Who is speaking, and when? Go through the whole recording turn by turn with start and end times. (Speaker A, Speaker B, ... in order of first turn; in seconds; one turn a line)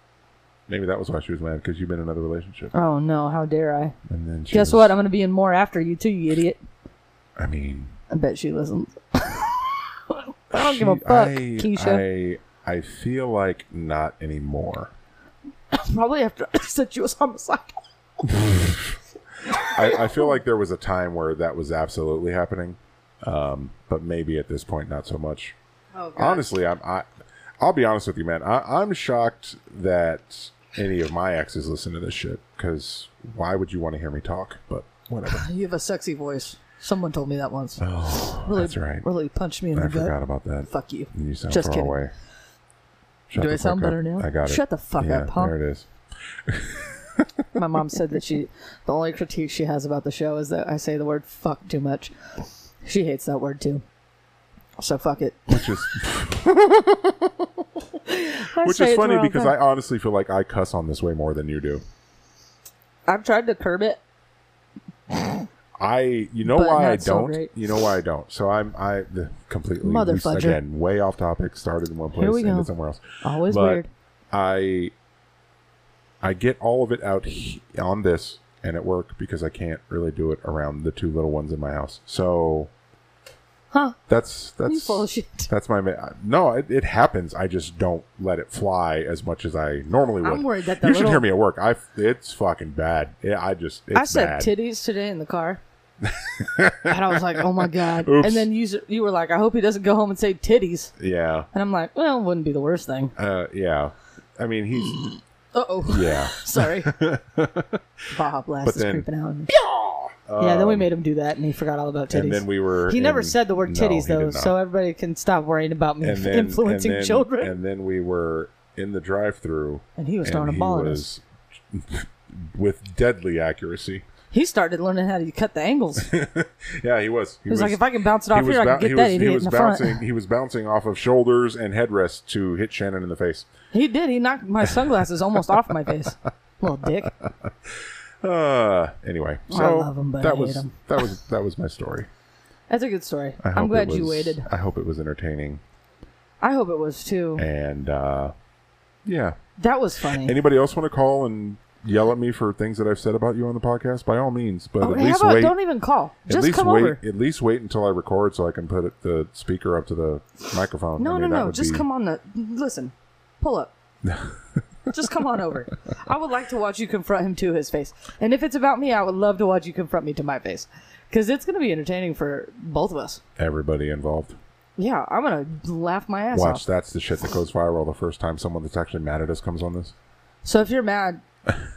Speaker A: 0.7-2.7
Speaker B: 2.7-4.0
Speaker A: 4.1-4.9
Speaker B: 4.5-6.6
Speaker A: 7.4-7.9
Speaker B: 8.1-12.0
Speaker A: 10.5-14.9
Speaker B: 15.7-17.8
Speaker A: 18.2-19.0
Speaker A: 19.5-25.6
Speaker B: 19.8-20.3
Speaker B: 25.9-26.5
Speaker A: 26.2-27.1
Speaker A: 27.6-35.5
Speaker B: 35.3-40.1
Speaker A: 37.8-39.1
Speaker A: 39.7-42.1
Speaker B: 40.7-42.0
Speaker A: 43.3-45.9
Speaker B: 43.4-45.5
Speaker A: 46.5-47.3
Speaker B: 47.5-53.8
Speaker B: 54.8-55.8
Speaker A: 55.5-57.6
Speaker B: 58.1-59.6
Speaker A: 58.6-61.8
Speaker B: 63.1-64.0
Speaker B: 65.1-65.4
Speaker A: 65.8-74.9
Speaker B: 66.5-67.5
Speaker B: 69.8-70.6
Speaker B: 72.2-72.7
Speaker B: 73.2-73.9
Speaker A: 76.2-82.7
Speaker B: 83.7-84.0
Speaker A: 84.1-94.5
Speaker B: 84.7-85.5
Speaker B: 90.2-91.3
Speaker B: 93.9-95.6
Speaker A: 96.0-98.5
Speaker B: 96.9-100.9
Speaker A: 101.0-101.5
Speaker B: 101.5-103.1
Speaker A: 103.2-105.2
Speaker B: 105.5-107.0
Speaker A: 105.9-107.8
Speaker B: 108.1-109.5
Speaker A: 108.6-110.9
Speaker B: 110.4-117.5
Speaker A: 112.1-114.5
Speaker A: 116.0-124.1
Speaker B: 120.0-121.1
Speaker B: 124.3-126.1
Speaker A: 126.0-133.5
Speaker B: 127.5-130.0
Speaker B: 133.7-137.1
Speaker A: 138.2-142.1
Speaker B: 139.5-140.7
Speaker B: 142.7-144.5
Speaker A: 143.4-145.6
Speaker B: 146.4-147.4
Speaker A: 147.4-148.3
Speaker A: 149.1-149.4
Speaker B: 149.6-150.3
Speaker A: 150.2-155.6
Speaker B: 154.8-157.0
Speaker A: 156.3-161.8
Speaker B: 161.0-163.7
Speaker A: 164.1-164.4
Speaker B: 164.9-173.2
Speaker A: 173.4-174.4
Speaker B: 174.8-176.6
Speaker A: 176.3-179.9
Speaker B: 180.4-181.2